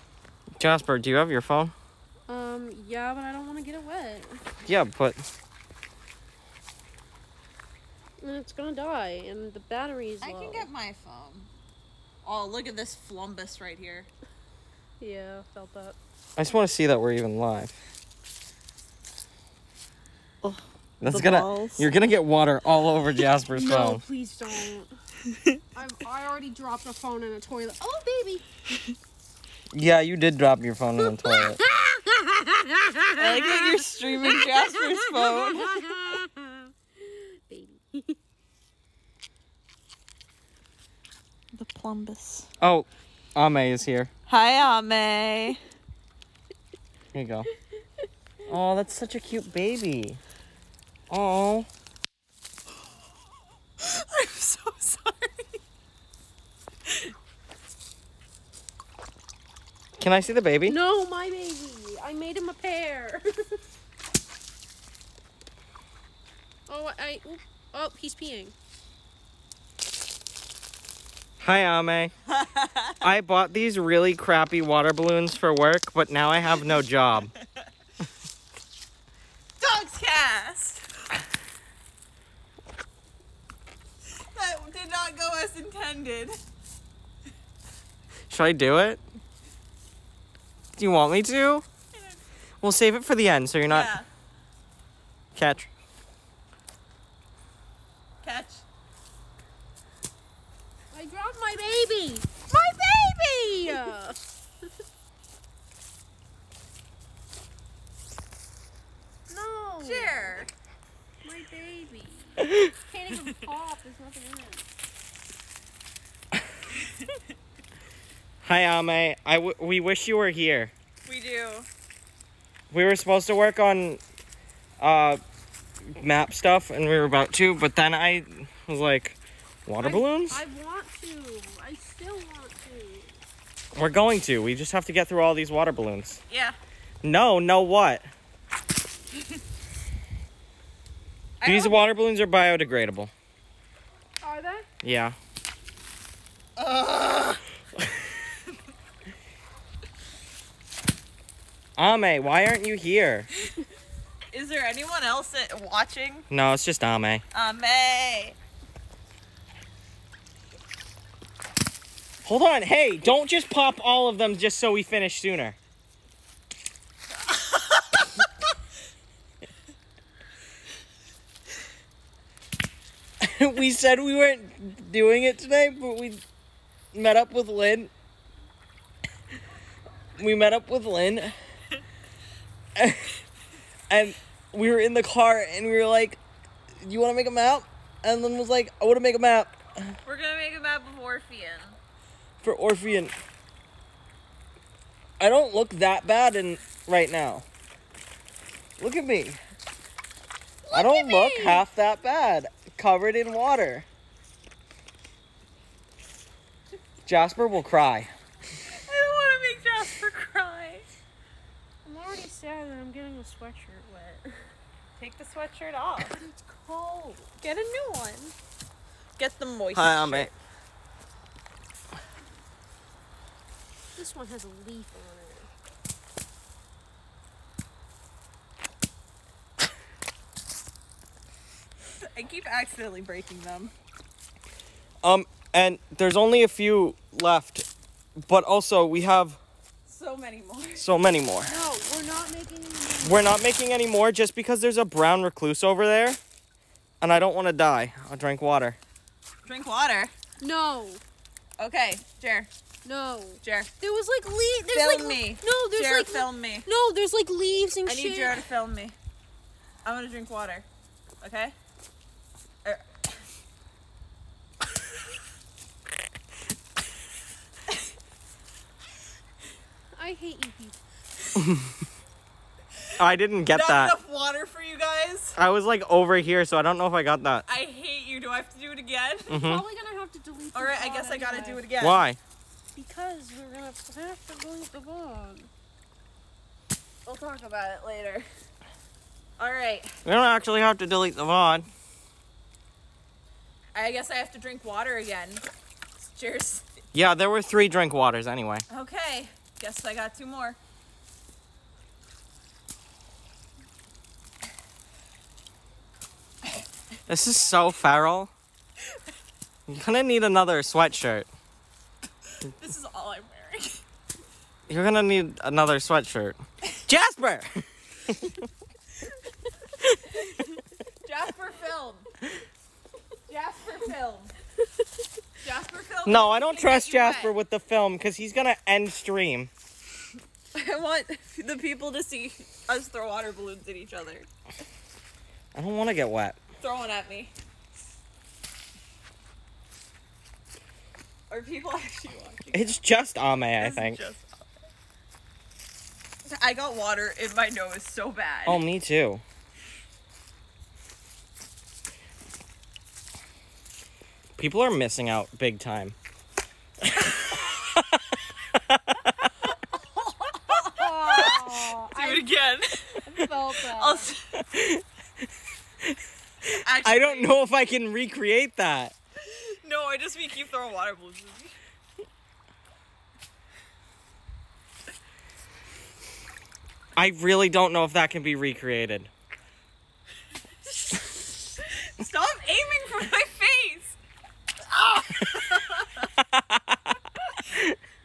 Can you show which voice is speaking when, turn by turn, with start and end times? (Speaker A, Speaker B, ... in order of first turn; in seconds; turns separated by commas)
Speaker A: 0.6-1.7, Speaker B: 2.3-4.4, Speaker A: 4.6-5.2, Speaker B: 8.2-10.7, Speaker C: 10.2-11.5, Speaker C: 12.2-14.1, Speaker B: 15.0-16.0, Speaker A: 16.4-17.8, Speaker C: 20.4-21.9, Speaker A: 21.0-24.0, Speaker B: 23.5-24.9, Speaker B: 25.7-28.4, Speaker A: 29.7-31.6, Speaker B: 31.0-33.0, Speaker C: 33.1-35.9, Speaker B: 35.3-36.5, Speaker B: 37.0-38.2, Speaker C: 41.5-42.5, Speaker A: 42.6-44.1, Speaker C: 44.3-45.6, Speaker A: 47.1-47.5, Speaker A: 48.5-50.2, Speaker A: 51.1-51.7, Speaker C: 53.8-55.5, Speaker A: 60.0-60.8, Speaker B: 60.7-63.6, Speaker B: 66.7-68.5, Speaker A: 71.4-72.1, Speaker C: 72.4-72.9, Speaker A: 73.0-77.3, Speaker C: 79.6-80.8, Speaker C: 84.3-86.3, Speaker A: 88.3-89.0, Speaker A: 90.8-91.6, Speaker A: 92.6-93.9, Speaker C: 93.7-94.0, Speaker A: 95.3-95.7, Speaker C: 98.2-98.6, Speaker B: 100.9-104.2, Speaker B: 109.3-110.4, Speaker C: 109.8-110.5, Speaker B: 111.2-114.7, Speaker A: 118.4-120.7, Speaker C: 121.0-121.7, Speaker A: 122.7-124.0, Speaker A: 124.8-125.2, Speaker A: 126.0-130.4, Speaker B: 129.8-133.1, Speaker A: 133.7-136.2, Speaker C: 136.3-136.6, Speaker A: 137.0-138.1, Speaker C: 141.4-141.8, Speaker A: 141.4-143.1, Speaker B: 144.2-144.7, Speaker A: 144.8-145.2, Speaker C: 146.6-147.4, Speaker A: 151.8-153.3, Speaker C: 154.3-156.2, Speaker A: 156.3-157.2, Speaker C: 157.3-158.4, Speaker A: 162.2-165.6, Speaker C: 167.3-168.0, Speaker A: 173.2-176.2, Speaker A: 176.9-177.9, Speaker A: 180.2-181.3, Speaker A: 182.8-183.1, Speaker A: 183.9-186.2, Speaker A: 186.8-189.9, Speaker C: 190.0-191.8, Speaker A: 192.4-193.2, Speaker A: 195.2-197.4, Speaker A: 198.8-199.4, Speaker B: 200.7-201.7, Speaker A: 200.7-203.8, Speaker A: 207.1-208.1, Speaker C: 208.7-210.9, Speaker B: 211.8-214.4, Speaker C: 215.0-216.2, Speaker B: 216.0-217.3, Speaker C: 217.4-218.3, Speaker C: 219.2-220.3, Speaker A: 219.7-220.3, Speaker B: 224.0-225.5, Speaker C: 232.0-233.7, Speaker A: 235.0-237.7, Speaker A: 238.2-239.4, Speaker C: 239.8-240.9, Speaker A: 240.8-241.6, Speaker B: 241.4-243.5, Speaker A: 243.0-246.2, Speaker A: 247.0-248.8, Speaker C: 249.4-250.1, Speaker B: 250.4-251.0, Speaker C: 251.6-252.5, Speaker B: 252.8-258.4, Speaker C: 253.4-253.7, Speaker C: 254.7-256.7, Speaker C: 257.9-258.9, Speaker C: 259.8-260.6, Speaker C: 261.2-261.5, Speaker C: 262.6-263.2, Speaker B: 269.9-270.8, Speaker A: 271.4-271.7, Speaker A: 273.0-273.9, Speaker C: 273.5-275.4, Speaker A: 275.4-277.4, Speaker C: 277.4-279.4, Speaker A: 279.3-279.6, Speaker B: 279.3-281.6, Speaker C: 280.5-282.0, Speaker A: 281.8-282.2, Speaker B: 282.7-285.5, Speaker C: 287.0-288.3, Speaker C: 289.4-289.9, Speaker A: 290.0-291.7, Speaker C: 293.7-295.4, Speaker C: 296.0-296.6, Speaker A: 296.9-298.6, Speaker C: 298.7-300.6, Speaker A: 307.1-308.3, Speaker A: 309.7-311.3, Speaker C: 312.4-313.8, Speaker A: 314.7-317.5, Speaker C: 321.0-322.1, Speaker C: 323.3-324.3, Speaker C: 325.4-327.3, Speaker A: 326.1-329.5, Speaker C: 330.5-334.3, Speaker A: 335.5-336.4, Speaker C: 336.6-337.3, Speaker C: 341.3-342.8, Speaker A: 342.5-344.0, Speaker C: 343.6-344.5, Speaker C: 346.2-348.6, Speaker A: 348.4-349.2, Speaker A: 354.4-355.9, Speaker A: 358.6-359.0, Speaker C: 360.2-364.2, Speaker B: 360.4-362.3, Speaker B: 363.0-364.1, Speaker A: 364.4-364.8, Speaker A: 366.5-368.9, Speaker C: 366.6-367.4, Speaker C: 369.2-371.5, Speaker A: 376.9-379.1, Speaker C: 382.0-383.9, Speaker C: 384.7-386.1, Speaker A: 386.2-386.8, Speaker A: 387.5-387.8